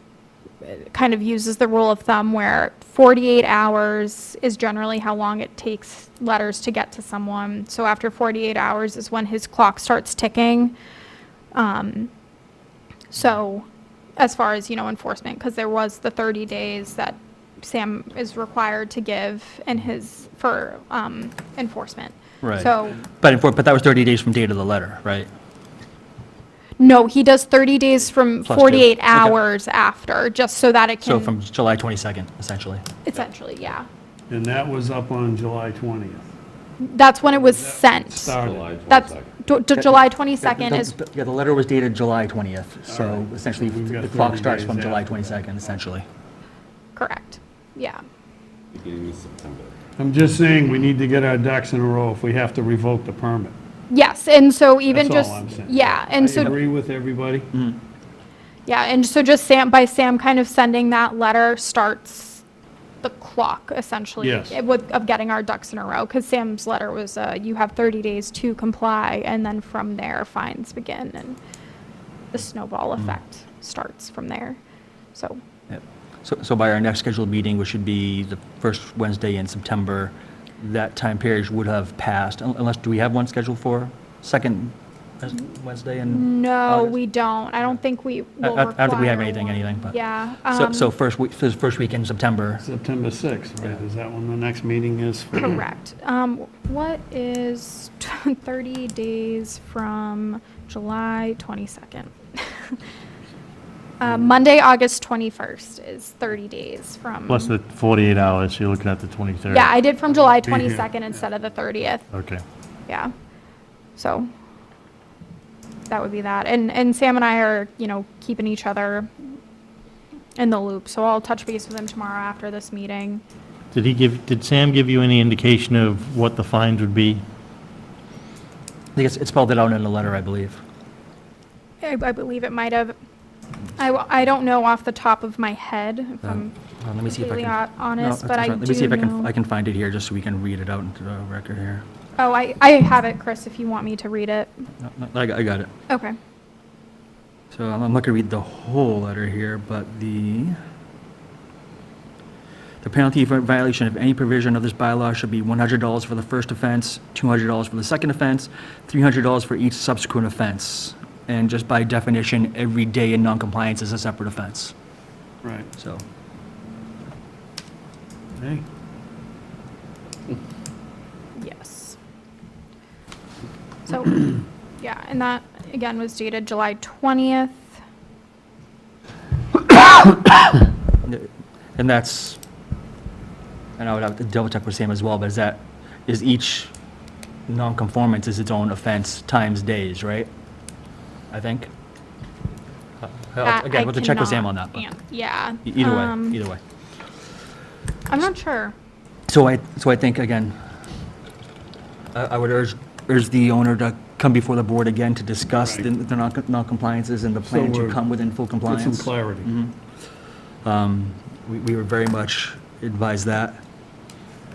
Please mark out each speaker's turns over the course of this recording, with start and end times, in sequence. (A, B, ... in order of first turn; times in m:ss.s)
0:00.6-0:10.7 A
0:11.5-0:12.1 A
0:13.1-0:13.6 A
0:14.2-0:23.0 A
0:22.4-0:25.3 B
0:26.8-0:31.3 A
0:28.4-0:29.4 B
0:31.0-0:32.8 B
0:33.0-0:33.9 A
0:34.3-0:36.3 C
0:36.8-0:38.4 A
0:37.2-0:38.7 C
0:38.4-0:39.4 D
0:38.9-0:40.9 A
0:39.7-0:46.0 B
0:42.9-0:45.4 C
0:47.0-0:48.0 A
0:48.7-0:49.7 D
0:50.0-0:53.6 C
0:53.9-0:56.5 A
0:54.9-0:57.5 C
0:57.5-0:57.8 B
0:58.6-1:02.4 A
1:03.0-1:11.4 A
1:04.2-1:04.6 C
1:12.3-1:14.6 A
1:15.7-1:27.0 B
1:26.1-1:30.9 A
1:28.4-1:32.6 B
1:32.6-1:35.6 C
1:35.4-1:42.8 A
1:44.0-1:47.5 A
1:47.3-1:49.7 E
1:49.5-1:52.1 A
1:50.4-1:50.9 C
1:52.1-1:52.4 E
1:52.9-1:53.1 A
1:54.0-1:54.3 A
1:55.9-1:59.1 A
2:00.4-2:03.2 A
2:03.7-2:07.2 E
2:08.9-2:10.6 B
2:11.8-2:12.9 A
2:13.8-2:16.5 A
2:16.2-2:21.8 B
2:17.0-2:19.3 A
2:22.2-2:24.6 A
2:24.8-2:25.7 B
2:25.9-2:26.2 A
2:27.5-2:30.6 B
2:32.8-2:44.7 B
2:45.4-2:45.7 C
2:45.8-2:46.0 B
2:48.4-2:48.6 C
2:51.4-2:52.0 A
2:53.8-2:54.3 A
2:54.8-2:57.7 A
3:01.0-3:02.4 B
3:03.8-3:06.7 B
3:07.5-3:10.3 B
3:11.3-3:11.7 B
3:13.0-3:14.8 B
3:13.4-3:16.4 A
3:15.6-3:16.6 B
3:18.1-3:18.7 A
3:19.3-3:20.6 B
3:22.1-3:29.8 B
3:25.6-3:25.8 C
3:27.4-3:28.0 C
3:28.6-3:29.5 C
3:30.6-3:33.6 B